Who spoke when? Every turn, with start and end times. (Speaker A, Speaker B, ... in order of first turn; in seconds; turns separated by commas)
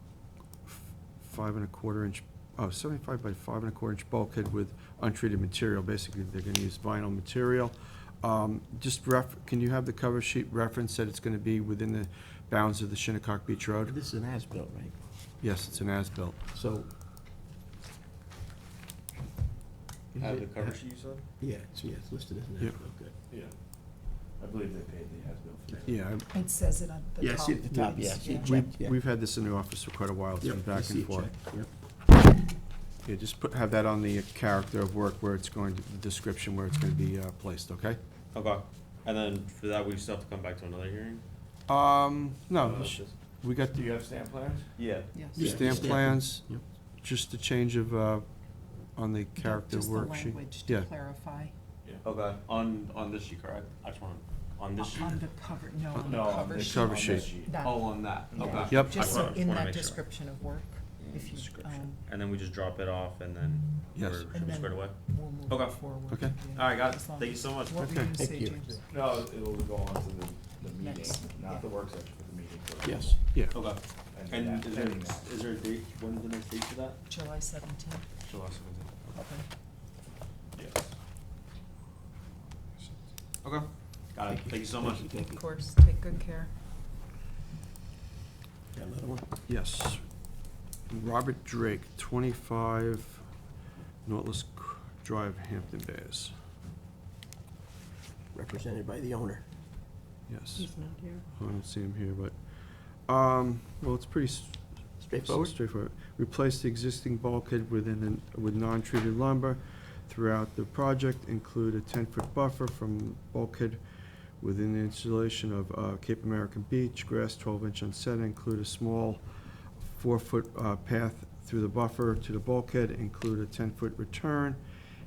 Speaker A: 0.7-14.0, Speaker B: 13.8-14.9, Speaker A: 15.4-16.4, Speaker B: 16.5-16.9, Speaker B: 20.1-20.8, Speaker C: 20.2-21.3, Speaker B: 21.4-23.1, Speaker D: 24.4-26.0, Speaker B: 25.7-26.2, Speaker A: 25.9-26.2, Speaker E: 26.3-28.7, Speaker B: 27.2-29.0, Speaker A: 28.2-31.3, Speaker B: 30.4-31.7, Speaker A: 33.0-38.0, Speaker C: 38.3-41.2, Speaker A: 41.7-43.9, Speaker C: 42.6-43.1, Speaker D: 43.8-44.7, Speaker C: 44.8-45.8, Speaker E: 45.1-45.6, Speaker B: 45.4-46.6, Speaker A: 45.4-48.2, Speaker D: 45.5-46.0, Speaker A: 48.9-50.9, Speaker E: 49.3-51.5, Speaker C: 52.0-55.2, Speaker E: 54.8-62.0, Speaker A: 55.9-57.3, Speaker D: 56.0-57.5, Speaker C: 57.6-60.0, Speaker D: 58.4-58.7, Speaker A: 58.7-59.1, Speaker A: 61.3-61.9, Speaker C: 62.0-65.8, Speaker A: 64.0-64.3, Speaker E: 64.3-68.9, Speaker C: 66.5-67.8, Speaker A: 67.8-68.1, Speaker B: 68.2-68.7, Speaker D: 68.8-73.2, Speaker E: 70.6-71.7, Speaker B: 72.8-73.2, Speaker A: 73.3-73.6, Speaker C: 73.5-77.0, Speaker D: 74.1-75.3, Speaker E: 77.1-78.1, Speaker C: 78.2-79.2, Speaker E: 79.1-79.5, Speaker C: 80.6-80.8, Speaker C: 83.4-85.1, Speaker B: 84.3-85.4, Speaker E: 85.2-86.5, Speaker B: 88.7-89.2, Speaker A: 89.5-90.0, Speaker A: 90.9-93.2, Speaker A: 94.0-96.3, Speaker B: 98.3-99.4, Speaker A: 100.3-113.8, Speaker B: 105.0-105.5, Speaker A: 114.4-119.2, Speaker A: 119.8-124.6